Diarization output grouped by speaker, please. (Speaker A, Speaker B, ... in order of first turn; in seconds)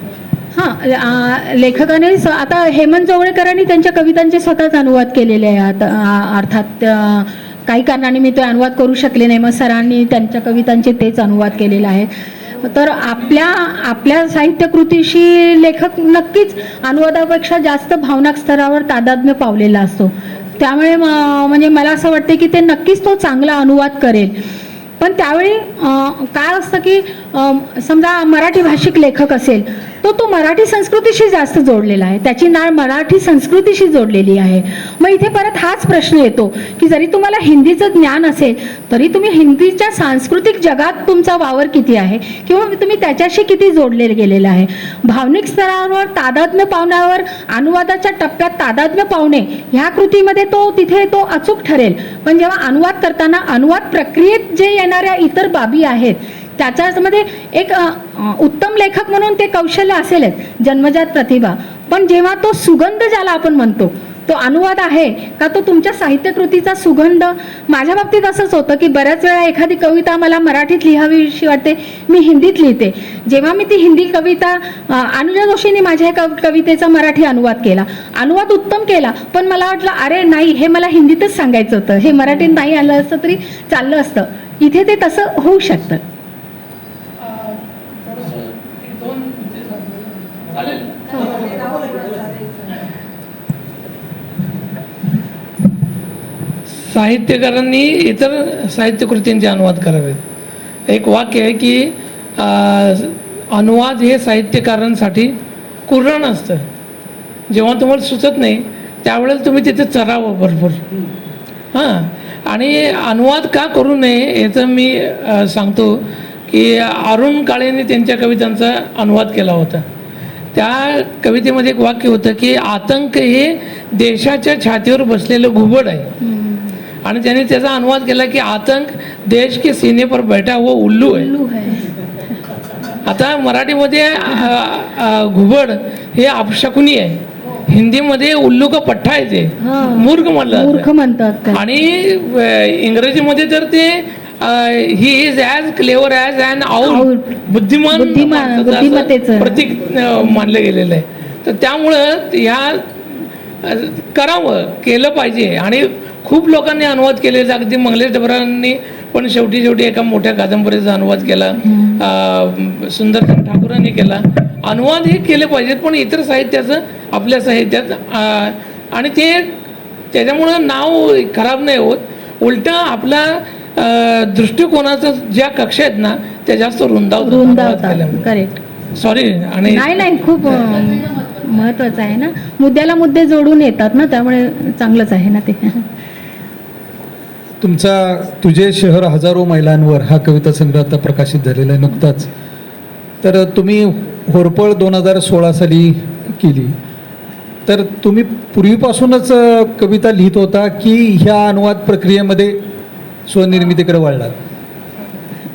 Speaker A: 0.5-24.4, 25.0-86.0, 126.2-126.8, 131.0-131.9, 139.6-141.6, 146.8-147.4, 147.9-149.6, 161.7-162.0, 177.2-178.6, 179.7-185.9
Speaker B: 87.2-92.0, 96.8-100.2, 100.9-105.3, 105.9-106.7, 107.5-110.8, 111.7-119.8, 120.5-126.1, 127.0-131.3, 133.0-140.9, 141.5-152.9, 153.6-169.5, 170.1-178.3, 178.9-179.9
Speaker C: 187.6-192.3, 193.2-196.8, 197.7-202.6, 203.3-204.4